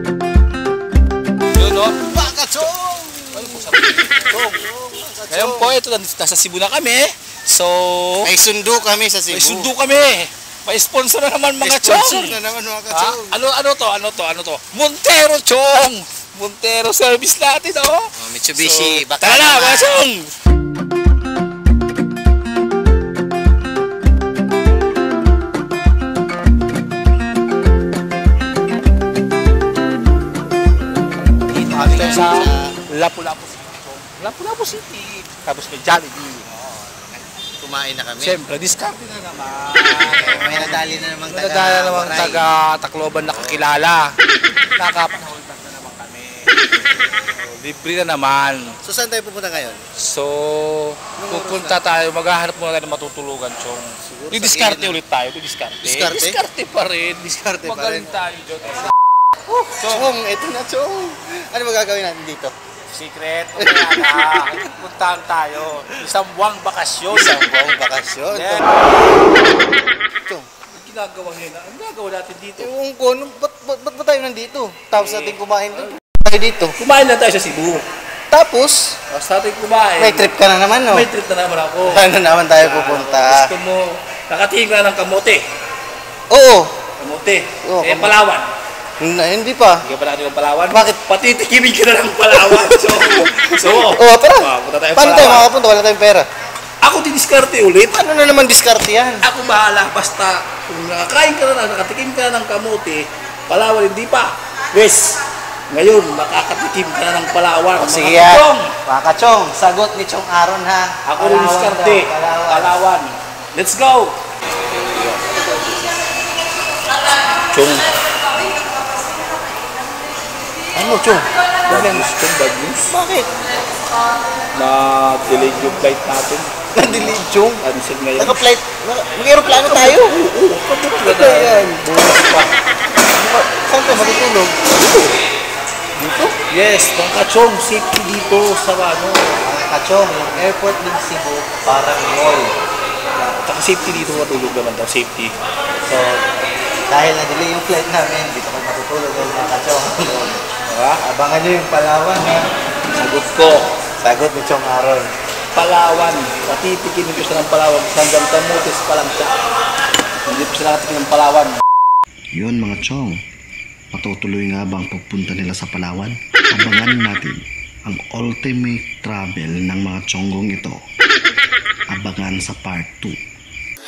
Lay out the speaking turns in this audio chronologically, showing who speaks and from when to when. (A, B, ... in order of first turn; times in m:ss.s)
0:01.6-0:02.0 A
0:02.1-0:03.8 B
0:03.3-0:04.6 A
0:04.3-0:05.8 B
0:05.3-0:08.3 A
0:08.2-0:09.7 B
0:09.3-0:12.4 A
0:11.6-0:13.4 B
0:12.9-0:20.3 A
0:18.2-0:20.0 B
0:31.5-0:36.4 A
0:31.6-0:32.7 B
0:36.5-0:38.4 B
0:38.2-0:44.1 A
0:40.1-0:42.5 B
0:43.3-0:43.7 B
0:44.8-0:46.6 A
0:47.2-0:48.8 A
0:48.8-0:49.8 B
0:50.0-0:58.9 A
0:51.2-0:51.8 B
0:54.1-0:55.0 B
0:55.8-0:56.4 B
0:57.3-0:58.1 B
0:59.5-1:00.1 A
0:59.8-1:02.5 B
1:02.9-1:07.4 A
1:03.6-1:04.4 B
1:07.1-1:08.6 B
1:08.3-1:08.7 A
1:10.7-1:12.7 A
1:12.6-1:16.8 B
1:14.9-1:15.9 A
1:16.8-1:17.8 A
1:18.3-1:19.0 B
1:19.1-1:20.3 A
1:20.0-1:21.1 B
1:20.9-1:25.4 A
1:21.8-1:23.5 B
1:26.3-1:26.8 B
1:27.0-1:28.5 A
1:27.6-1:28.2 B
1:29.0-1:29.8 B
1:29.8-1:35.5 A
1:33.6-1:36.3 B
1:36.8-1:38.0 A
1:37.9-1:39.2 B
1:39.2-1:45.2 A
1:45.7-1:48.7 A
1:47.8-1:52.7 B
1:51.0-1:54.2 A
1:54.8-1:55.2 A
1:57.5-1:57.9 A
2:00.8-2:02.1 B
2:01.7-2:02.9 A
2:02.9-2:03.3 B
2:04.6-2:08.4 A
2:06.8-2:07.6 B
2:08.2-2:10.2 B
2:09.5-2:12.5 A
2:11.0-2:12.5 B
2:13.2-2:14.6 B
2:16.0-2:19.3 A
2:19.4-2:22.5 B
2:23.2-2:25.3 A
2:25.9-2:26.2 B
2:26.9-2:30.4 B
2:30.7-2:31.0 A
2:31.0-2:32.4 B
2:33.0-2:33.7 A
2:34.0-2:35.1 B
2:35.5-2:39.4 A
2:40.3-2:41.6 A
2:42.3-2:43.2 C
2:43.9-2:50.8 C
2:51.9-2:53.2 C